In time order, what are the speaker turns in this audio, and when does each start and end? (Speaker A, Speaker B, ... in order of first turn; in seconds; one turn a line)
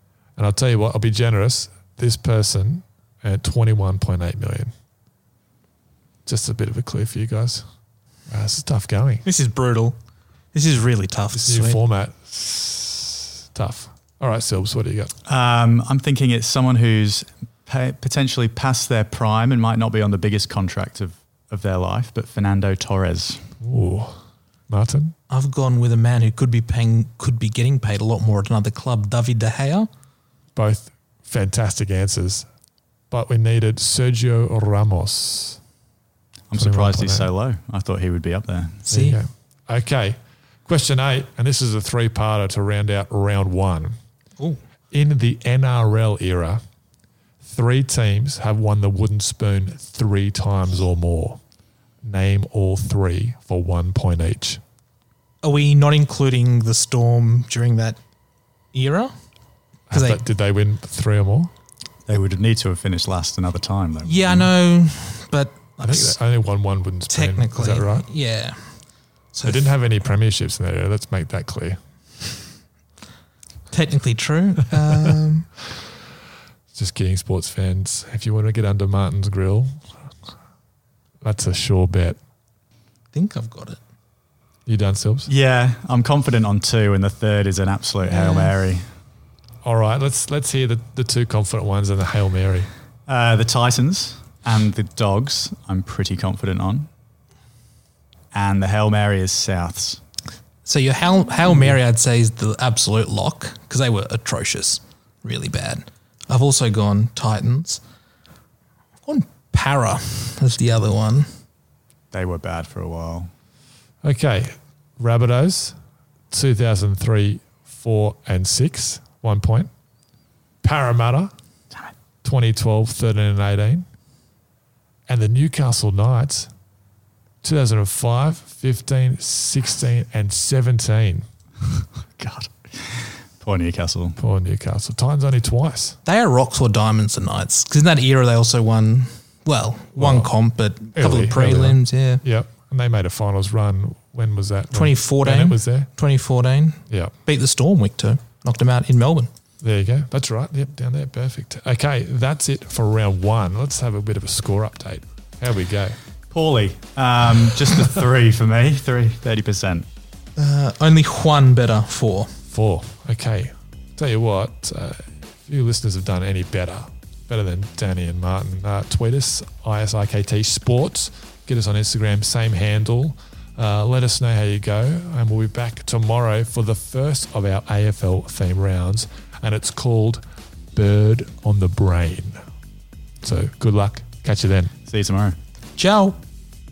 Speaker A: 0.4-4.7
Speaker A: 6.2-7.6
Speaker A: 8.3-9.2
Speaker B: 9.2-10.0
Speaker B: 10.5-11.8
Speaker A: 11.3-15.1
Speaker C: 15.2-23.4
Speaker A: 23.6-25.1
Speaker B: 25.3-29.9
Speaker A: 30.6-32.5
Speaker A: 33.1-35.6
Speaker C: 36.5-38.8
Speaker A: 36.5-37.3
Speaker B: 38.9-39.2
Speaker A: 38.9-44.0
Speaker A: 44.9-46.6
Speaker A: 47.4-51.4
Speaker A: 52.0-54.6
Speaker B: 55.4-58.0
Speaker B: 58.7-59.1
Speaker A: 59.9-61.5
Speaker B: 59.9-60.2
Speaker C: 62.1-64.5
Speaker B: 64.0-66.2
Speaker A: 65.8-68.1
Speaker B: 67.1-68.8
Speaker B: 69.3-69.7
Speaker A: 69.4-71.8
Speaker B: 73.7-75.5
Speaker A: 76.7-79.8
Speaker A: 81.2-82.2
Speaker B: 83.1-83.8
Speaker A: 84.7-85.3
Speaker C: 85.3-88.9
Speaker B: 88.0-88.6
Speaker A: 89.6-92.7
Speaker C: 93.1-96.9
Speaker C: 98.3-100.0
Speaker B: 100.7-107.8
Speaker B: 109.1-111.3
Speaker C: 112.1-113.3
Speaker A: 114.0-115.8
Speaker A: 116.3-119.7
Speaker A: 120.6-121.3
Speaker A: 122.2-123.8
Speaker A: 125.1-126.5
Speaker A: 127.4-131.2
Speaker C: 132.1-134.2
Speaker A: 134.2-136.0
Speaker B: 136.1-142.2
Speaker A: 140.0-140.3
Speaker A: 140.9-145.9
Speaker B: 144.7-149.3
Speaker A: 146.9-147.1
Speaker A: 149.6-156.0
Speaker C: 156.3-159.9
Speaker B: 160.4-162.3
Speaker A: 162.5-180.2
Speaker A: 180.7-182.4
Speaker A: 183.2-184.7
Speaker C: 184.9-185.4
Speaker B: 185.8-186.2